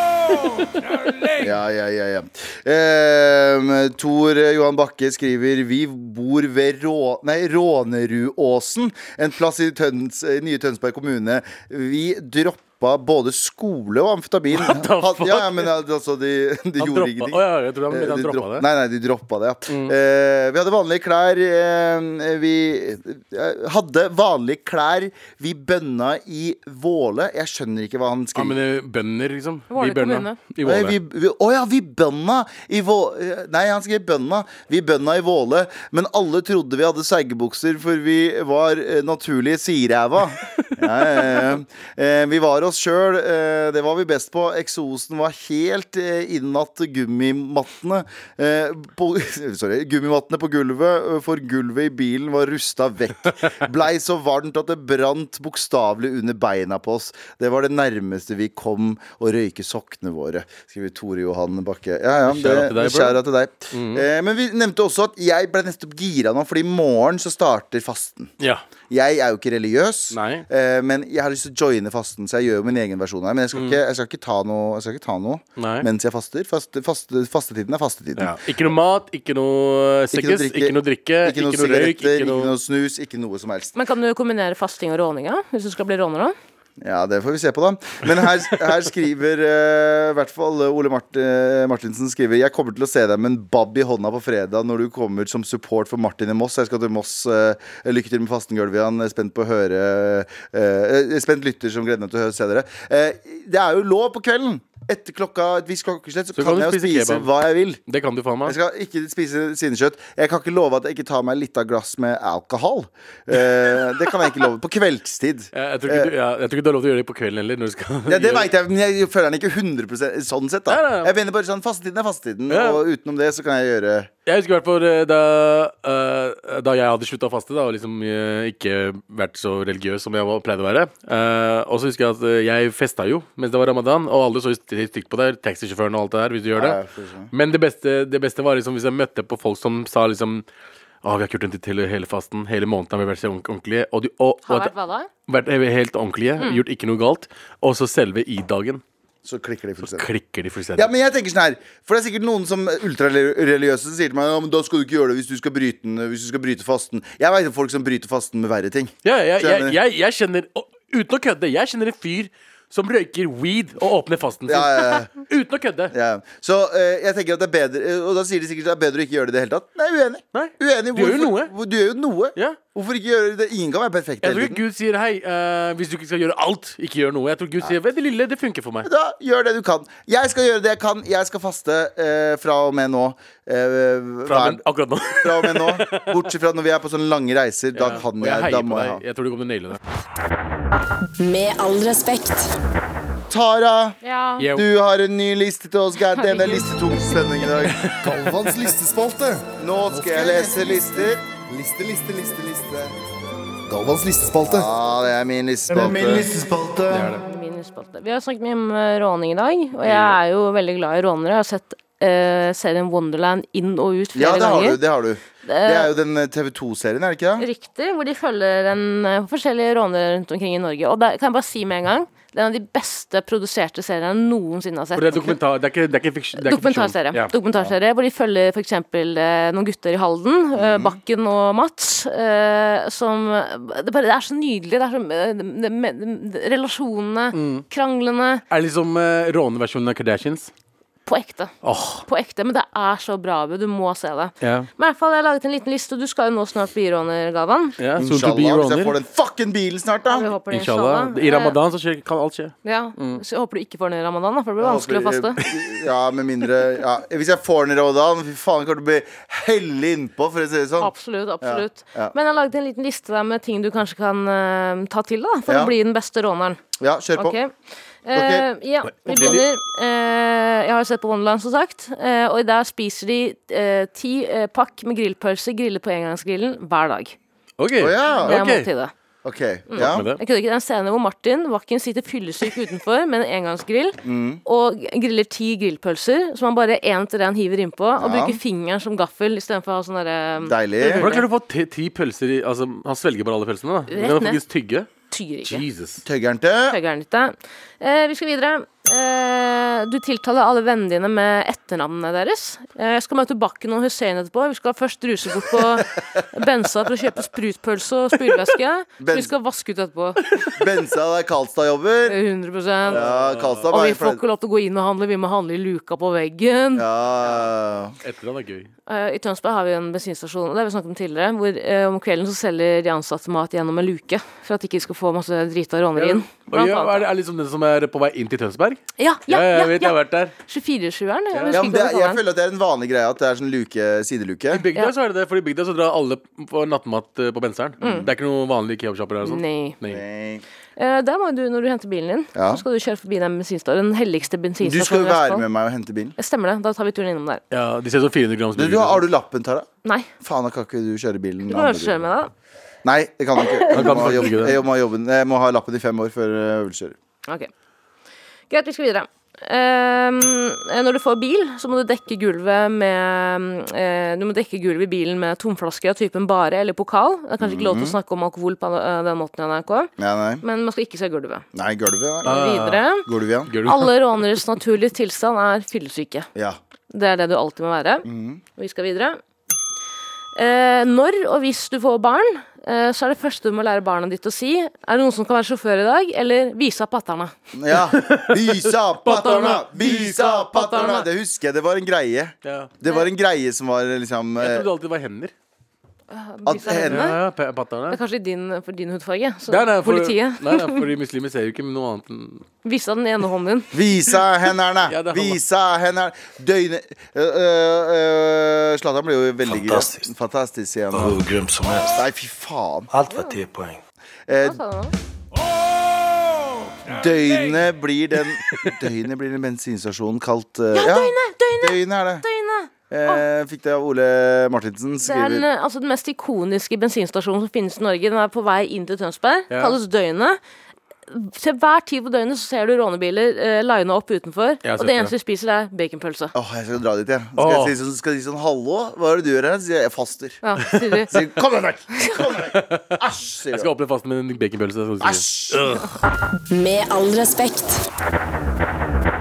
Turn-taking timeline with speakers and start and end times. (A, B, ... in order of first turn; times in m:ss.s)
0:00.5-0:01.4 A
0:01.4-0:28.6 B
0:14.5-0:15.7 A
0:16.8-0:18.6 A
0:19.7-0:19.9 A
0:28.3-0:31.0 A
0:29.7-0:30.4 C
0:30.6-1:08.3 B
0:40.6-0:41.3 A
1:02.3-1:03.2 A
1:03.7-1:04.0 A
1:08.9-1:18.4 B
1:10.1-1:10.4 A
1:13.5-1:13.8 A
1:15.6-1:15.9 A
1:18.2-1:22.5 A
1:20.1-1:23.7 B
1:23.7-1:26.3 C
1:26.8-1:47.8 B
1:46.4-1:47.3 A
1:47.9-1:48.6 A
1:48.4-1:56.1 B
1:53.7-1:54.0 A
1:55.5-1:58.5 A
1:58.1-2:04.1 B
2:00.7-2:01.1 A
2:02.5-2:02.8 A
2:04.2-2:16.8 A
2:16.5-2:17.3 B
2:17.3-2:20.4 A
2:21.0-2:24.7 A
2:24.4-2:25.1 C
2:25.3-2:28.8 A
2:29.2-2:30.1 B
2:29.8-2:30.9 A
2:30.8-2:39.8 B
2:39.0-2:45.9 A
2:44.5-2:45.1 B
2:45.9-2:54.6 B
2:50.3-2:51.5 A
2:54.2-2:58.9 A
2:58.8-3:09.0 B
3:04.2-3:06.1 A
3:07.8-3:09.8 A
3:11.2-3:12.6 D
3:13.3-3:14.0 B
3:14.0-3:14.4 C
3:14.4-3:14.7 A
3:14.5-3:17.8 B
3:16.1-3:17.0 C
3:17.7-3:18.0 A
3:18.0-3:22.9 E
3:19.6-3:21.2 B
3:23.7-3:24.7 E
3:24.4-3:27.1 B
3:25.8-3:26.1 A
3:25.8-3:26.3 E
3:26.9-3:27.2 A
3:27.2-3:34.8 C
3:29.8-3:30.2 A
3:34.1-3:37.5 B
3:35.4-3:35.9 C
3:37.4-3:45.4 C
3:44.9-3:47.3 A
3:46.4-3:58.4 C
3:50.5-3:51.0 B
3:57.3-3:57.6 A
3:58.5-4:00.5 A
4:01.0-4:01.5 C
4:01.6-4:02.0 A
4:02.0-4:07.8 C
4:04.4-4:04.7 A
4:07.8-4:09.0 A
4:08.0-4:10.3 B
4:10.1-4:11.6 C
4:10.5-4:13.2 A
4:12.6-4:15.4 C
4:14.6-4:22.1 B
4:20.8-4:26.6 C
4:25.5-4:25.7 B
4:26.8-4:27.4 B
4:27.2-4:27.5 C
4:28.0-4:37.2 C
4:28.1-4:28.5 B
4:29.0-4:29.4 B
4:29.0-4:29.4 A
4:37.6-4:38.7 A
4:37.8-4:38.4 B
4:38.1-4:38.9 C
4:39.2-4:40.1 B
4:39.7-4:51.3 C
4:39.8-4:40.2 A
4:44.0-4:44.4 B
4:48.0-4:48.4 B
4:50.4-4:51.1 B
4:50.9-4:54.9 A
4:53.9-4:54.4 C
4:55.1-4:55.6 C
4:55.4-4:56.0 A
4:56.0-4:56.8 B
4:56.7-5:10.2 C
5:09.0-5:09.3 B
5:10.5-5:12.2 B
5:12.0-5:13.0 C
5:12.9-5:13.7 A
5:12.9-5:14.2 B
5:13.7-5:16.9 C
5:16.7-5:18.0 B
5:18.0-5:18.7 A
5:18.9-5:27.1 C
5:26.0-5:30.3 A
5:29.0-5:32.2 C
5:31.3-5:31.6 A
5:31.5-5:34.6 B
5:34.5-5:40.0 A
5:37.8-5:38.1 C
5:37.8-5:38.1 B
5:39.2-5:39.8 C
5:39.8-5:40.4 B
5:40.8-5:45.4 C
5:42.3-5:42.6 B
5:44.6-5:46.1 B
5:46.2-5:47.4 C
5:47.5-5:49.0 A
5:48.6-5:49.7 B
5:50.2-5:52.0 B
5:51.5-5:52.3 C
5:52.8-5:57.0 B
5:53.4-5:54.1 C
5:53.7-5:54.6 A
5:58.5-6:09.9 C
6:07.4-6:08.0 B
6:10.0-6:10.4 B
6:10.4-6:11.4 C
6:11.5-6:12.4 B
6:12.2-6:13.1 C
6:12.2-6:12.8 A
6:13.0-6:13.5 B
6:13.5-6:14.2 A
6:13.6-6:16.3 C
6:16.9-6:19.2 C
6:18.0-6:18.4 B
6:20.3-6:27.3 C
6:27.5-6:34.7 B
6:27.8-6:30.0 A
6:29.8-6:31.1 C
6:32.4-6:32.7 A
6:34.4-6:35.3 A
6:36.1-6:37.2 C
6:36.4-6:37.1 B
6:36.8-6:38.0 A
6:37.9-6:40.8 C
6:39.5-6:42.4 A
6:42.6-6:43.7 C
6:43.7-6:51.2 B
6:44.9-6:45.4 A
6:49.4-6:50.1 F
6:50.9-6:52.1 F
6:51.9-6:52.9 B
6:52.9-6:53.8 F
6:53.1-6:53.4 C
6:54.3-6:54.6 B
6:54.4-6:54.9 C
6:56.8-7:02.2 B
6:58.4-6:58.7 A
7:00.7-7:03.2 C
7:02.9-7:05.5 B
7:05.0-7:10.4 C
7:09.5-7:09.8 A
7:11.1-7:16.3 C
7:14.6-7:15.1 A
7:16.3-7:20.4 B
7:17.4-7:17.7 A
7:20.4-7:21.1 C
7:21.1-7:23.7 B
7:22.4-7:23.0 A
7:23.5-7:25.9 A
7:25.0-7:25.6 B
7:26.5-7:27.8 D